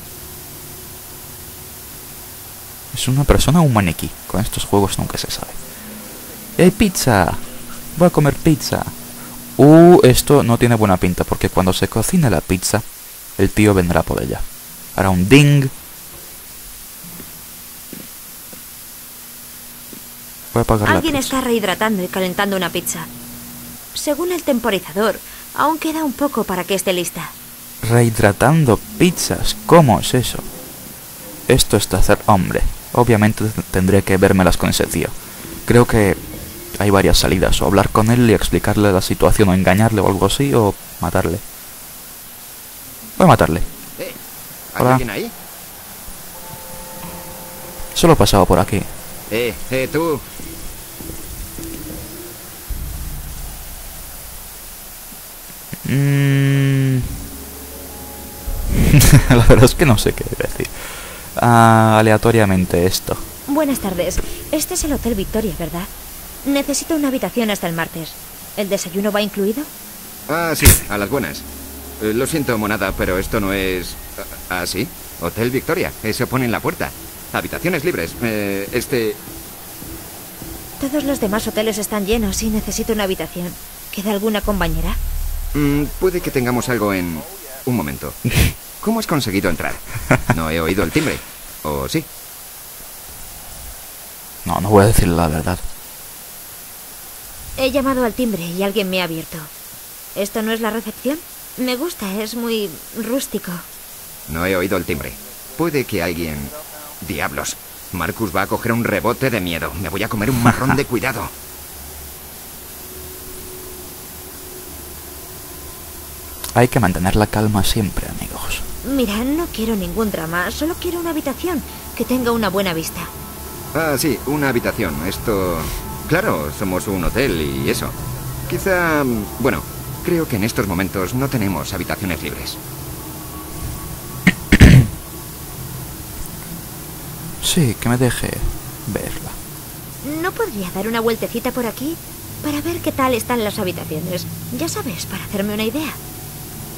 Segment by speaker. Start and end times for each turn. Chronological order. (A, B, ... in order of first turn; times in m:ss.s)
0:02.9-0:05.6 A
0:06.6-0:07.4 A
0:07.9-0:08.9 A
0:09.6-0:12.8 A
0:13.4-0:15.7 A
0:20.5-0:21.3 A
0:20.9-0:23.1 B
0:23.9-0:27.3 B
0:27.8-0:30.4 A
0:31.5-0:35.1 A
0:35.7-0:36.2 A
0:36.7-0:41.4 A
0:43.2-0:43.6 A
0:44.7-0:45.3 C
0:47.9-0:48.9 A
0:49.3-0:50.2 C
0:55.8-0:57.1 A
0:58.7-1:03.2 A
1:03.5-1:05.9 B
1:06.4-1:09.7 B
1:10.3-1:11.4 C
1:12.0-1:19.2 C
1:20.8-1:25.0 B
1:25.5-1:28.2 C
1:28.8-1:32.1 C
1:34.4-1:35.6 A
1:37.6-1:39.5 B
1:40.1-1:43.6 B
1:44.3-1:51.3 C
1:56.6-1:58.6 A
1:58.8-2:03.1 B
2:03.7-2:07.9 C
2:08.4-2:12.6 C
2:14.5-2:14.8 A
2:17.4-2:19.4 A
2:20.0-2:26.0 B